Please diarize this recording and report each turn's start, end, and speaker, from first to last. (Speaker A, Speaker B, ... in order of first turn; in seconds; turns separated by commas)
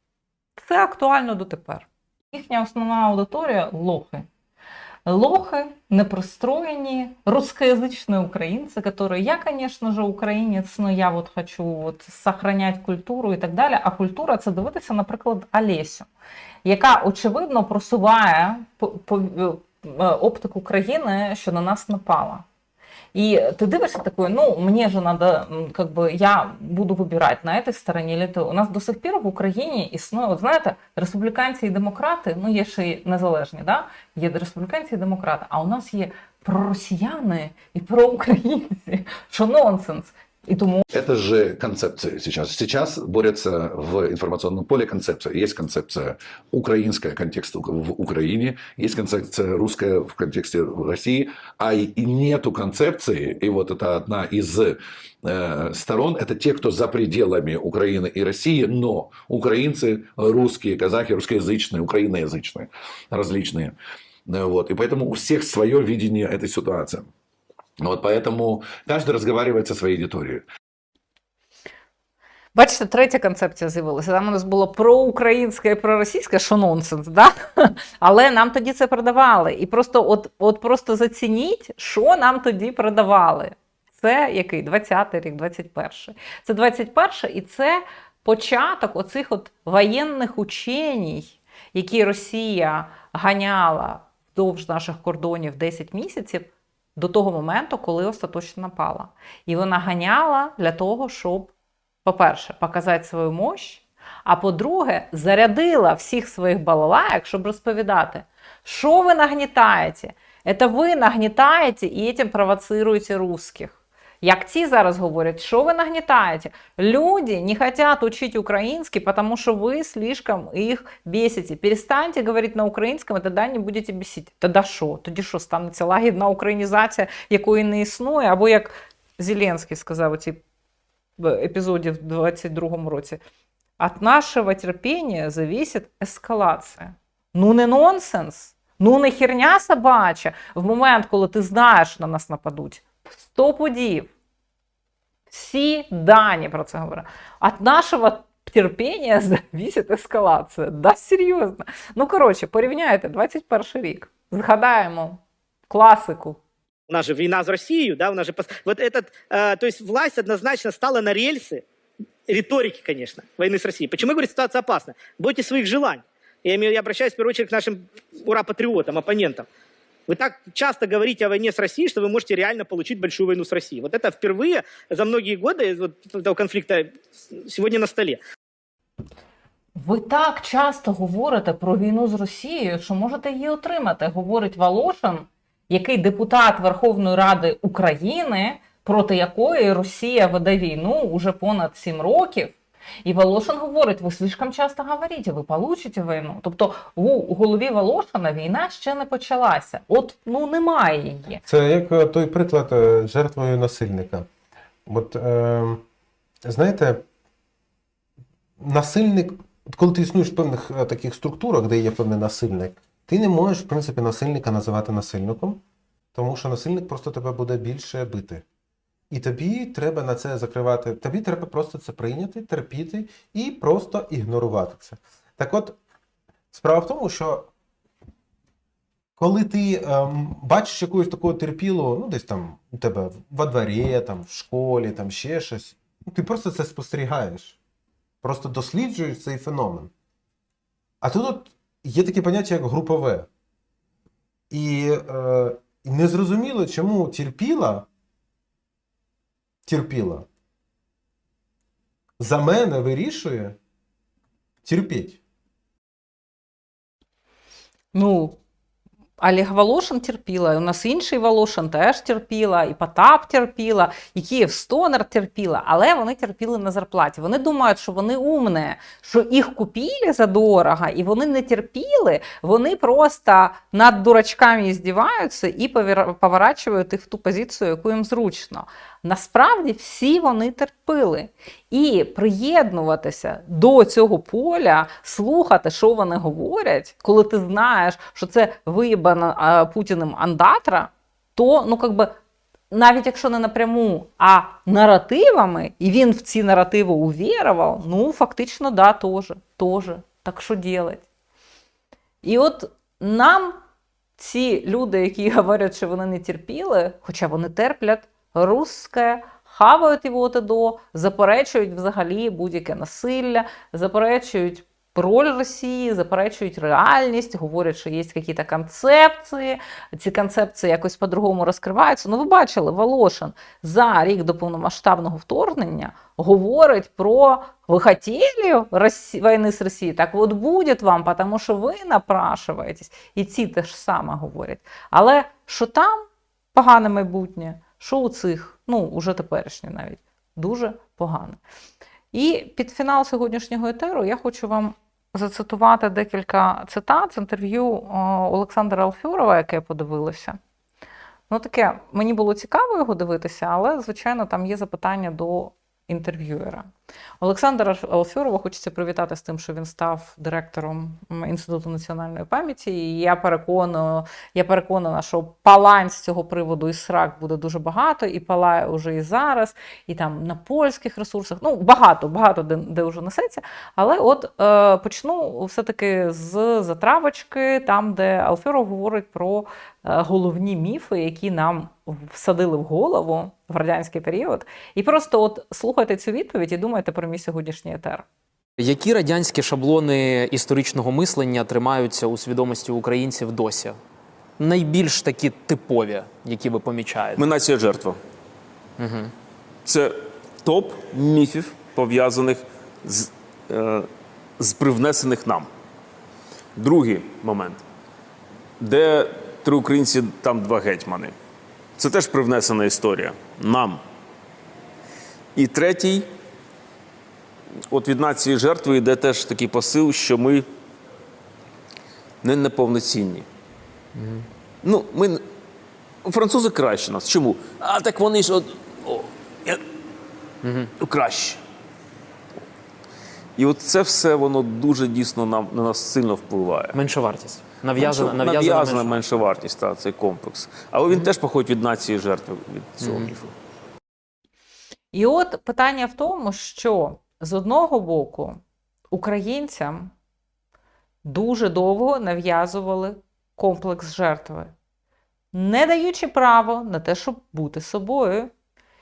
Speaker A: 0.6-4.3, Speaker A: 5.0-16.1, Speaker A: 16.6-22.4, Speaker A: 23.1-40.8, Speaker B: 40.9-63.8, Speaker B: 64.3-67.1, Speaker B: 67.8-70.5, Speaker A: 72.5-101.5, Speaker A: 102.0-130.4, Speaker A: 131.2-133.2, Speaker A: 133.8-144.1, Speaker A: 145.3-156.4, Speaker C: 156.9-161.6, Speaker C: 162.3-169.4, Speaker C: 170.1-176.9, Speaker C: 177.4-178.2, Speaker A: 179.8-201.4, Speaker D: 201.4-204.3, Speaker D: 204.8-205.8, Speaker D: 206.4-207.0, Speaker D: 208.6-215.6, Speaker D: 216.1-218.4, Speaker D: 219.1-225.8, Speaker D: 226.5-227.5, Speaker D: 229.2-237.6, Speaker D: 238.2-239.9, Speaker D: 241.0-243.3, Speaker D: 244.5-247.8, Speaker D: 249.7-250.3, Speaker D: 252.2-253.6, Speaker D: 254.6-255.2, Speaker A: 257.9-258.4, Speaker A: 259.2-292.2, Speaker A: 292.7-301.1, Speaker A: 302.2-303.6, Speaker A: 304.2-336.0, Speaker A: 336.5-341.4, Speaker A: 342.1-350.4, Speaker A: 351.3-356.7, Speaker A: 357.2-388.1, Speaker E: 388.6-393.8, Speaker E: 394.4-397.3, Speaker F: 397.1-398.0, Speaker E: 398.8-399.1, Speaker F: 399.6-403.9, Speaker F: 404.4-405.5, Speaker F: 406.6-407.6, Speaker F: 408.6-411.1, Speaker F: 411.8-413.8, Speaker F: 415.4-416.1, Speaker F: 417.7-420.4, Speaker F: 422.2-423.3, Speaker E: 423.9-424.2, Speaker F: 424.6-425.2, Speaker F: 426.0-429.6, Speaker E: 430.4-430.7, Speaker F: 430.8-431.4, Speaker F: 433.4-436.8, Speaker E: 436.7-439.1, Speaker F: 437.7-443.3, Speaker E: 442.8-443.1, Speaker A: 444.9-448.4, Speaker A: 448.9-449.9, Speaker A: 451.0-454.5, Speaker A: 455.3-458.3